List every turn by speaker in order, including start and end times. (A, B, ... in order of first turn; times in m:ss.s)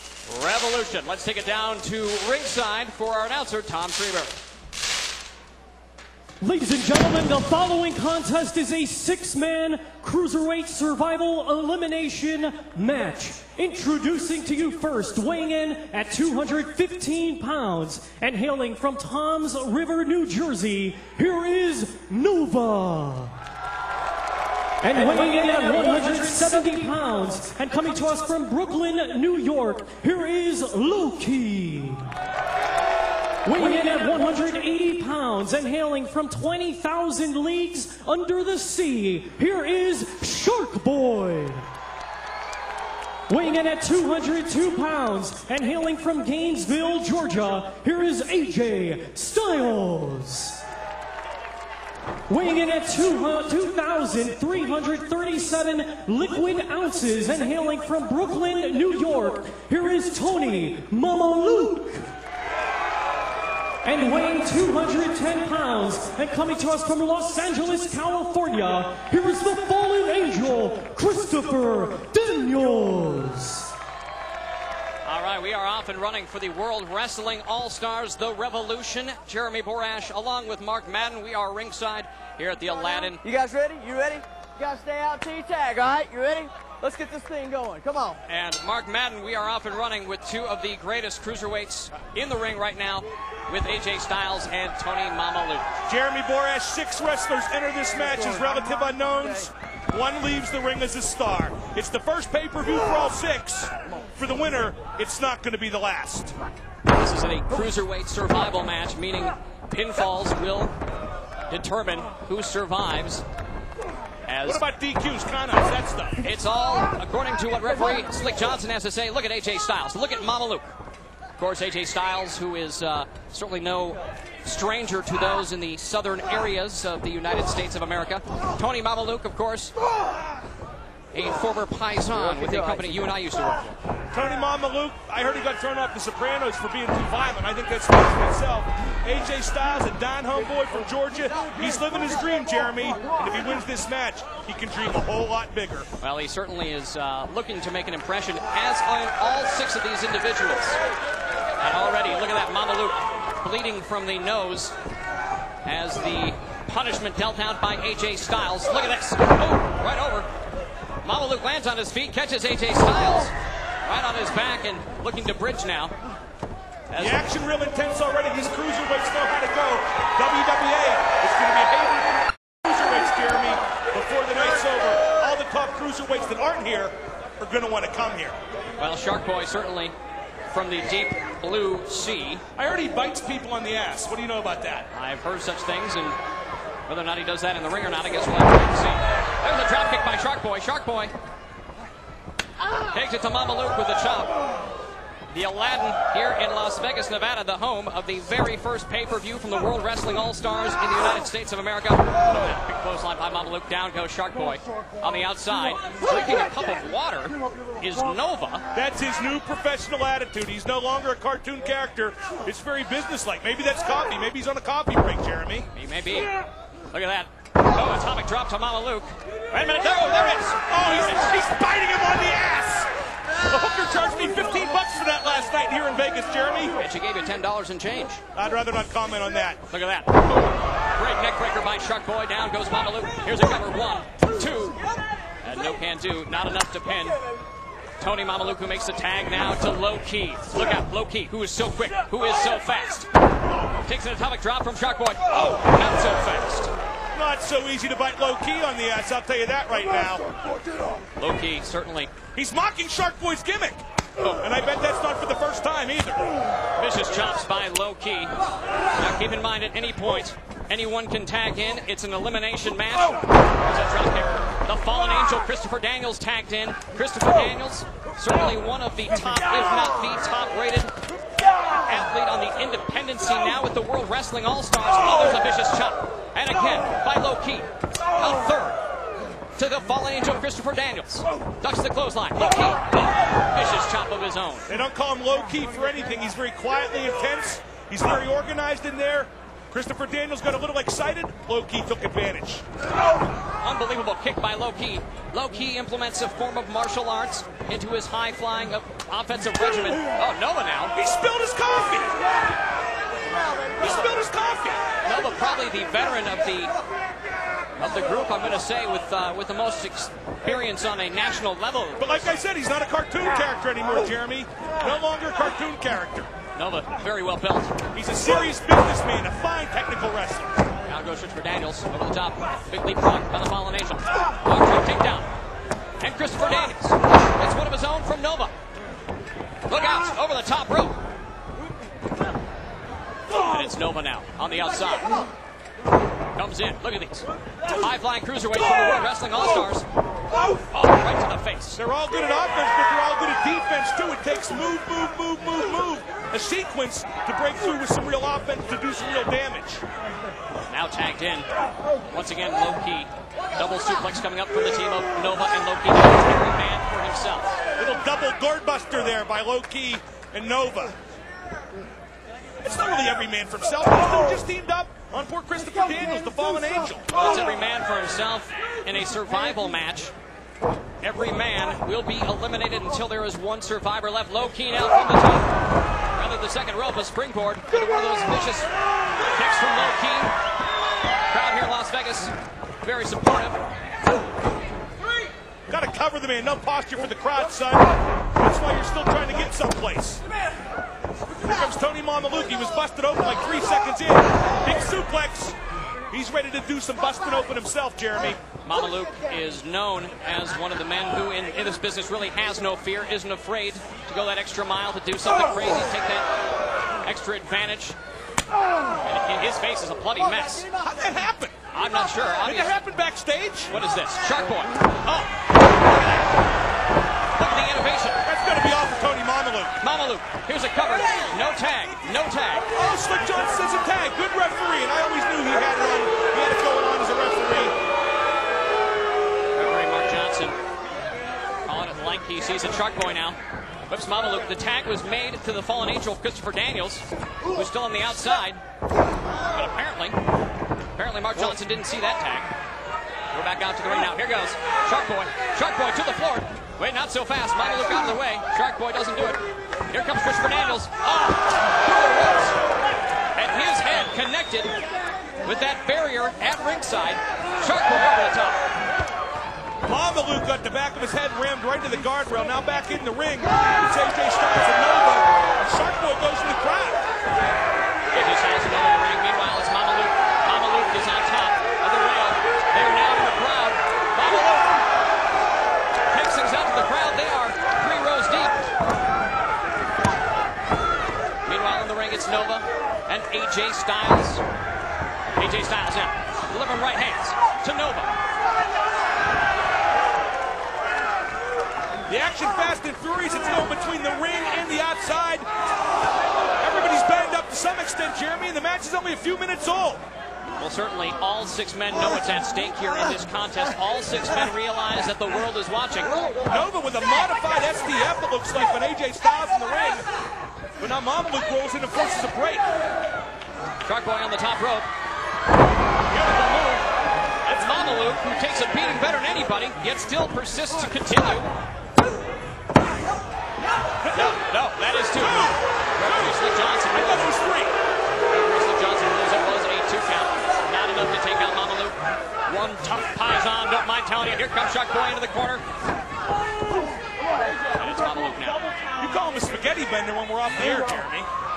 0:00.3-0:04.3 A
0:06.4-0:23.4 B
0:24.8-0:32.1 B
0:33.4-0:41.7 B
0:43.3-0:50.6 B
0:52.3-1:02.1 B
1:03.8-1:13.7 B
1:15.0-1:23.2 A
1:23.2-1:28.2 C
1:28.2-1:35.7 A
1:35.9-1:46.4 D
1:46.8-1:50.8 A
1:51.5-1:53.2 A
1:54.3-1:54.6 A
1:54.4-1:56.2 D
1:56.2-2:00.7 A
2:01.4-2:09.7 A
2:11.1-2:13.8 A
2:14.1-2:25.9 D
2:26.0-2:30.8 A
2:31.6-2:34.7 A
2:35.6-2:40.3 A
2:41.0-2:45.9 A
2:46.9-2:47.2 A
2:47.0-2:58.4 D
2:58.8-2:59.9 A
3:00.5-3:02.4 A
3:02.6-3:04.9 D
3:04.9-3:06.2 A
3:06.9-3:11.1 A
3:12.8-3:14.4 A
3:15.3-3:28.6 A
3:28.7-3:35.7 D
3:35.7-3:36.3 A
3:36.9-3:40.6 A
3:40.7-3:42.9 D
3:43.4-3:46.8 D
3:46.8-3:48.2 A
3:48.3-3:49.6 D
3:49.7-3:54.8 A
3:55.4-3:57.2 A
3:58.0-4:03.1 A
4:03.8-4:06.7 A
4:07.1-4:10.3 D
4:11.2-4:12.2 A
4:12.3-4:16.3 D
4:16.8-4:18.3 A
4:19.0-4:30.9 A
4:31.7-4:38.8 A
4:39.6-4:44.7 A
4:44.7-4:52.6 D
4:53.6-5:00.9 A
5:01.0-5:02.2 D
5:03.8-5:04.8 D
5:05.0-5:06.7 A
5:07.8-5:12.3 A
5:12.0-5:16.3 D
5:16.6-5:17.7 A
5:17.9-5:20.6 D
5:20.8-5:25.3 A
5:26.0-5:28.5 A
5:29.7-5:31.0 A
5:33.3-5:35.2 A
5:36.3-5:39.8 A
5:40.7-5:41.8 A
5:41.8-5:49.8 D
5:50.7-5:51.5 A
5:52.1-5:57.6 A
5:57.8-6:00.9 D
6:02.6-6:07.1 D
6:07.1-6:10.1 A
6:11.0-6:15.5 A
6:16.1-6:18.7 A
6:19.3-6:20.3 A
6:21.3-6:23.6 A
6:25.7-6:27.9 D
6:28.4-6:30.2 D
6:31.4-6:35.6 D
6:36.1-6:38.4 D
6:38.6-6:46.3 A
6:47.0-6:48.0 A
6:49.0-6:50.7 A
6:50.8-6:51.6 D
6:51.7-6:52.8 A
6:52.4-6:53.7 D
6:53.7-6:55.3 A
6:57.4-6:58.2 A
6:58.2-6:59.7 D
6:59.8-7:02.7 A
7:02.7-7:07.7 D
7:09.5-7:10.6 A
7:11.6-7:13.4 A
7:13.9-7:18.6 A
7:19.4-7:20.2 A
7:20.9-7:22.5 A
7:23.3-7:32.6 A
7:33.3-7:34.8 A
7:35.4-7:38.6 A
7:39.8-7:47.0 D
7:48.1-7:54.8 A
7:56.1-7:58.7 A
8:01.4-8:04.4 A
8:05.3-8:08.1 A
8:12.1-8:15.5 D
8:16.6-8:20.0 D
8:20.6-8:26.2 A
8:26.5-8:30.0 D
8:30.8-8:32.6 D
8:33.8-8:34.9 A
8:36.1-8:36.8 A
8:37.4-8:41.5 A
8:44.0-8:44.3 D
8:44.1-8:47.3 A
8:45.2-8:47.7 D
8:48.3-8:55.6 A
8:57.7-8:58.7 A
8:58.9-9:01.3 D